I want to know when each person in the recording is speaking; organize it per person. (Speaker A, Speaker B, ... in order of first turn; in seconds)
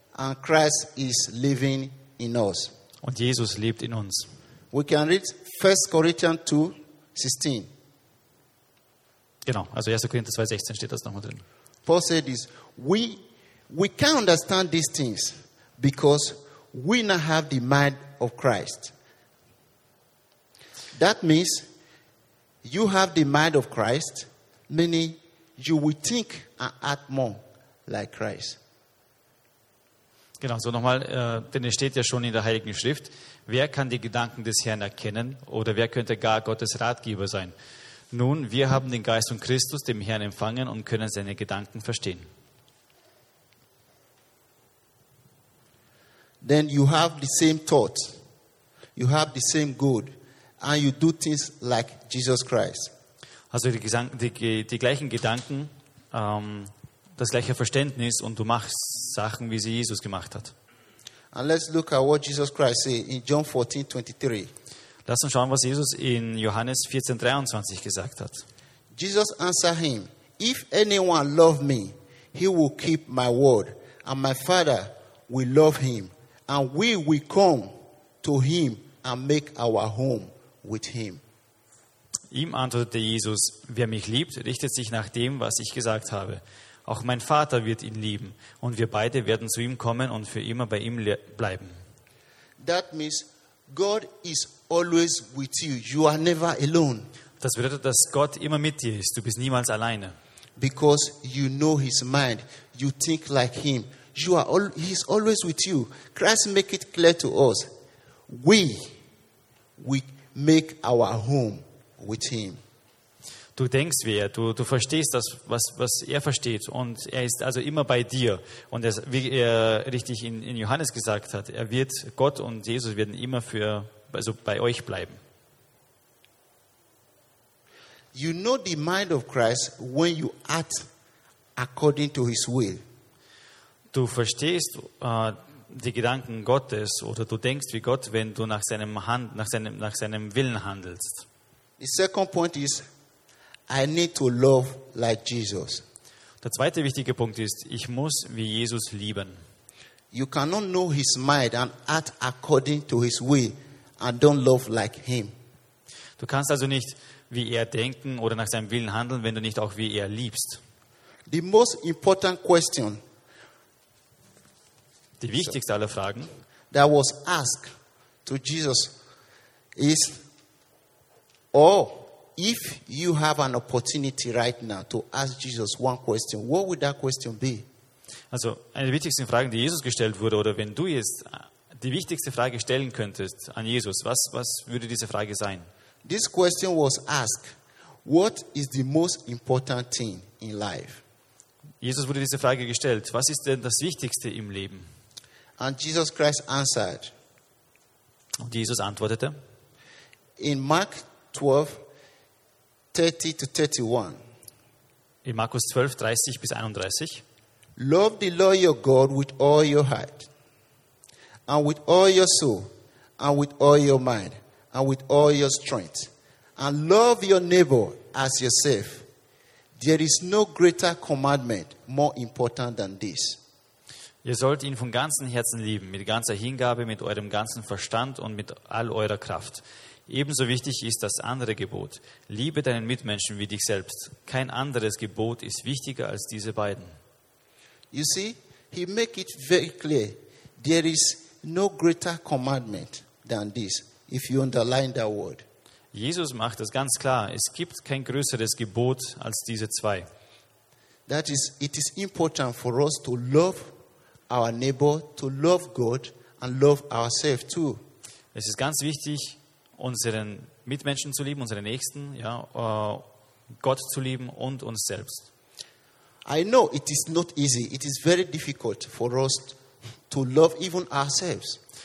Speaker A: 0.1-2.7, 4.7-7.7, 11.8-18.9, 20.9-21.7, 22.6-28.6, 46.4-48.2, 49.0-52.9, 61.3-64.5, 68.9-81.2, 92.6-97.1, 100.6-107.7, 108.3-109.0, 109.8-112.6, 128.1-130.9, 131.6-132.8, 141.8-142.8, 143.7-145.8, 150.1-155.3, 161.3-163.0, 166.7-167.7, 168.2-168.9, 169.8-170.2, 171.5-177.7, 186.0-191.0, 195.6-197.1, 200.4-201.8, 202.9-204.2, 207.8-210.3, 211.5-219.1, 219.8-223.4, 237.9-245.4, 251.1-253.7, 254.3-257.8, 266.2-269.6, 270.1-271.6
Speaker B: 3.0-4.3, 9.4-11.4, 30.4-37.5, 38.1-42.2, 53.5-60.5, 65.0-68.4, 82.3-91.8, 97.4-100.2, 113.5-125.2, 133.9-141.2, 146.4-149.4, 156.2-160.6, 165.2-166.3, 178.3-185.7, 191.8-194.8, 198.4-199.3, 205.2-207.2, 224.2-236.9, 245.9-250.1, 258.3-263.1, 263.6-265.3